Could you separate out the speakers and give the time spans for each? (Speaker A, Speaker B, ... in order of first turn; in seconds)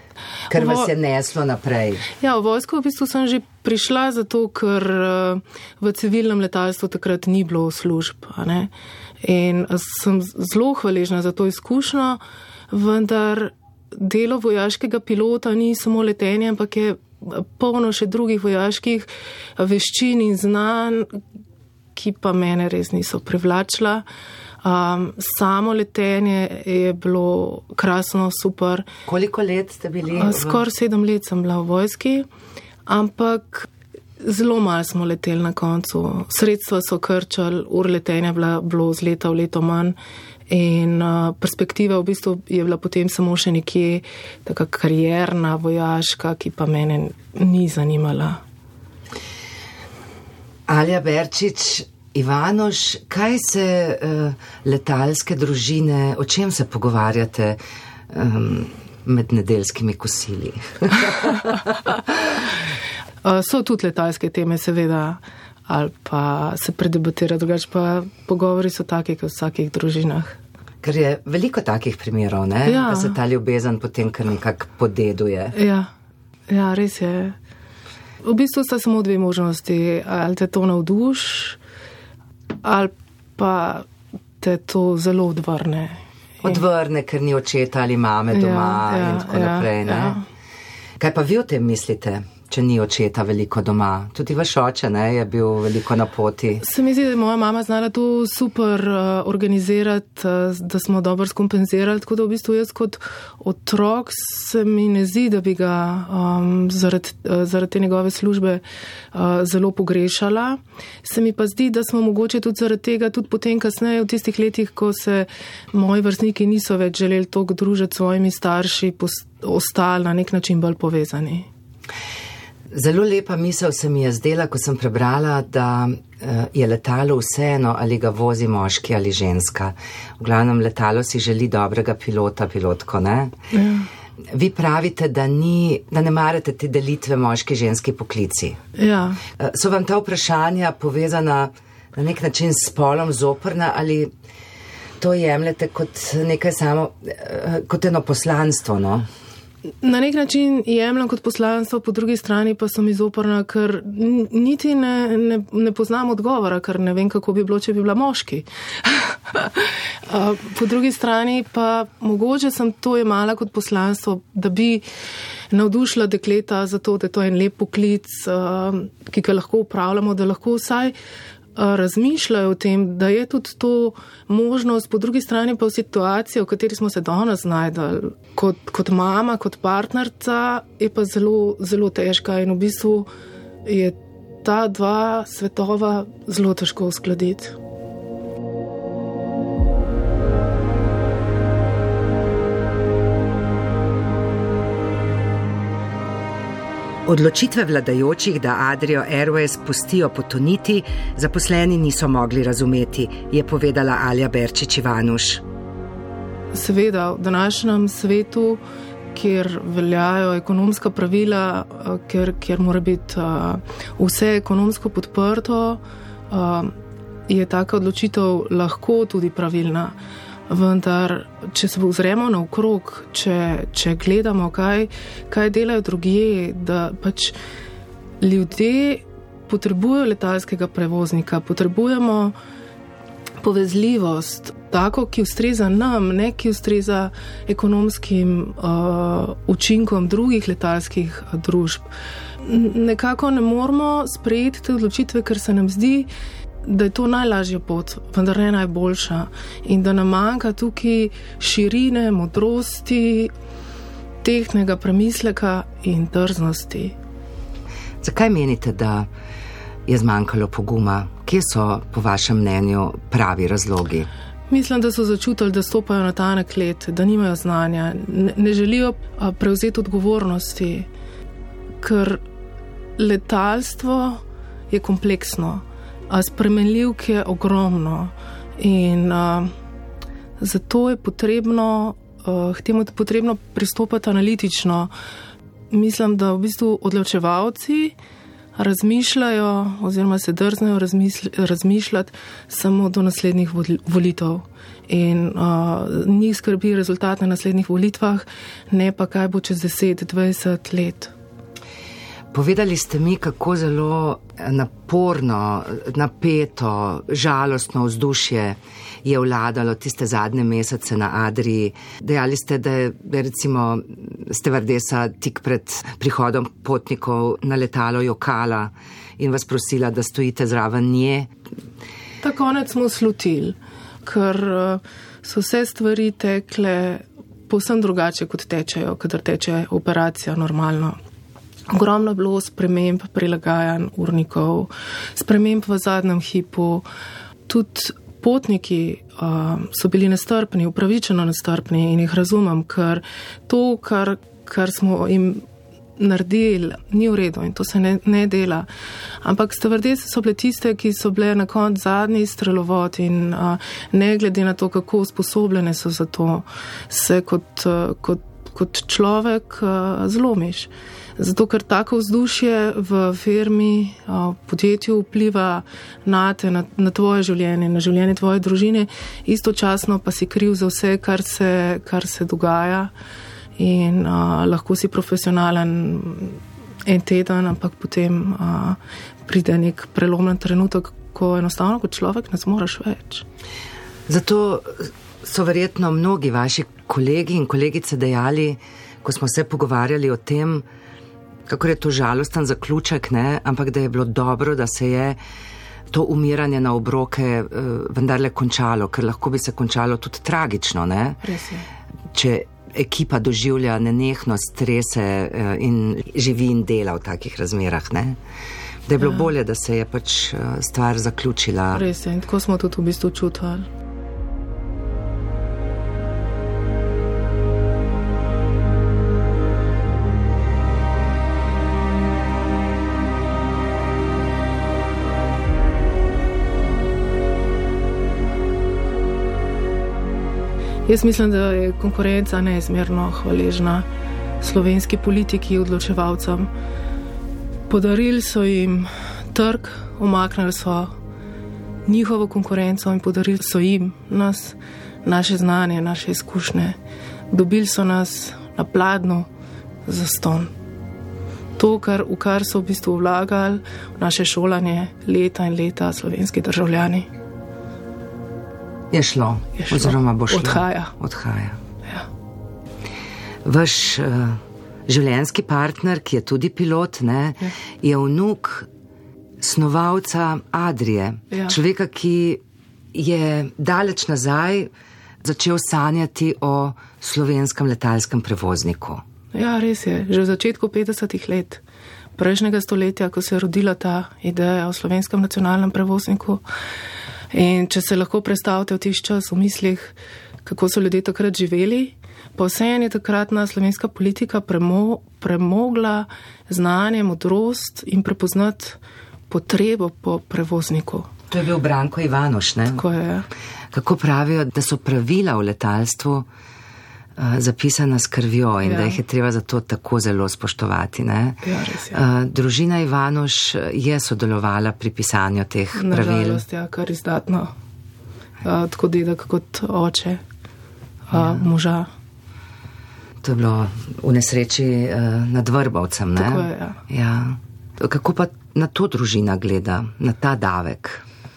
Speaker A: 0.5-2.1, 29.1-30.6, 50.7-57.6, 58.1-61.7, 70.8-75.5, 86.4-90.2, 91.0-96.6, 122.7-133.3, 134.3-138.6, 139.3-144.1, 145.0-149.1, 197.1-205.4, 258.0-259.1, 259.9-264.1, 302.3-321.3, 384.1-390.6, 391.5-395.2, 395.9-401.2, 402.1-408.2, 408.9-411.8, 458.9-461.6, 463.4-468.7, 469.4-472.4, 472.9-474.7, 475.2-479.0, 501.3-502.8, 503.7-506.2, 507.2-516.4, 523.2-531.0
Speaker B: 0.5-0.9, 2.2-8.7, 9.2-12.2, 12.7-21.1, 21.9-24.0, 24.6-28.9, 30.1-32.2, 32.9-33.7, 34.2-40.0, 40.5-48.4, 63.2-70.3, 72.6-73.2, 75.5-75.9, 76.5-77.3, 78.2-81.6, 82.6-83.8, 84.4-86.6, 88.3-90.2, 96.6-121.5, 133.5-133.9, 138.7-139.2, 149.8-164.8, 165.5-170.9, 171.6-183.1, 183.6-187.5, 206.5-208.6, 209.1-216.7, 217.3-219.9, 220.5-227.3, 228.2-232.3, 233.4-241.9, 242.4-246.1, 246.6-253.3, 254.2-256.9, 264.5-270.9, 271.8-272.2, 273.0-279.5, 280.4-284.9, 285.7-287.9, 288.6-301.1, 322.2-331.0, 331.7-336.9, 337.5-345.4, 346.0-348.7, 349.2-372.9, 373.6-383.2, 401.2-401.6, 411.7-413.7, 430.9-433.9, 434.4-436.5, 437.7-440.9, 441.9-446.8, 447.3-449.3, 449.9-450.5, 451.6-457.1, 459.6-460.9, 479.3-481.6, 482.2-486.4, 487.3-501.1, 502.7-503.3, 508.6-509.0, 511.4-512.0, 515.7-517.5, 518.4-520.2, 521.1-521.9, 526.1-526.8